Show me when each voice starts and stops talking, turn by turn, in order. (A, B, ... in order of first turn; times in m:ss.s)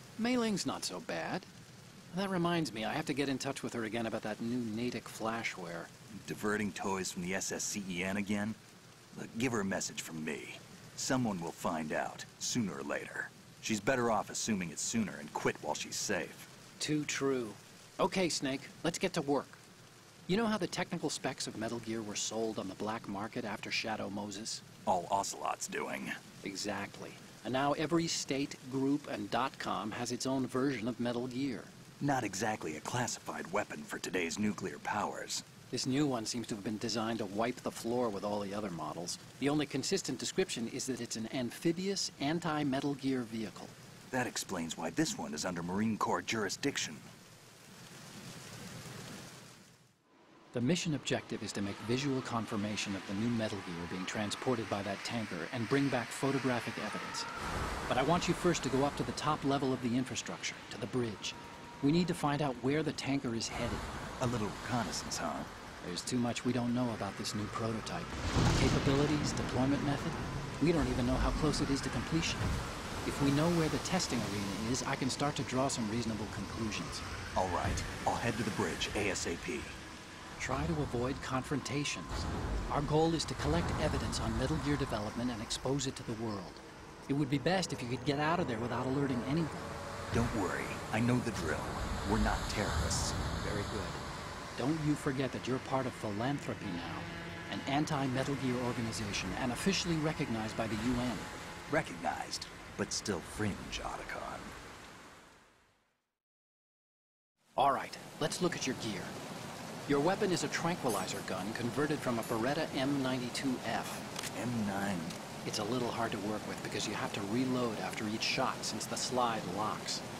0:00.2-0:01.5 A
0:02.1-0:05.9 A
0:06.2-0:08.6 B
0:09.1-0:16.5 B
0:16.8-0:19.6 A
0:20.3-0:24.6 A
0:24.8-0:26.1 B
0:26.4-0:31.7 A
0:32.0-0:35.4 B
0:35.7-0:43.8 A
0:44.1-0:47.0 B
0:50.5-0:57.3 A
0:57.9-1:03.9 A
1:04.2-1:05.5 B
1:05.8-1:12.5 A
1:13.0-1:17.0 A
1:17.4-1:19.8 B
1:20.4-1:29.8 A
1:30.1-1:33.2 B
1:33.4-1:34.0 A
1:34.6-1:41.3 A
1:41.7-1:44.5 B
1:47.6-1:49.1 A
1:49.9-1:54.0 A
1:54.3-1:55.2 B
1:55.4-2:00.0 A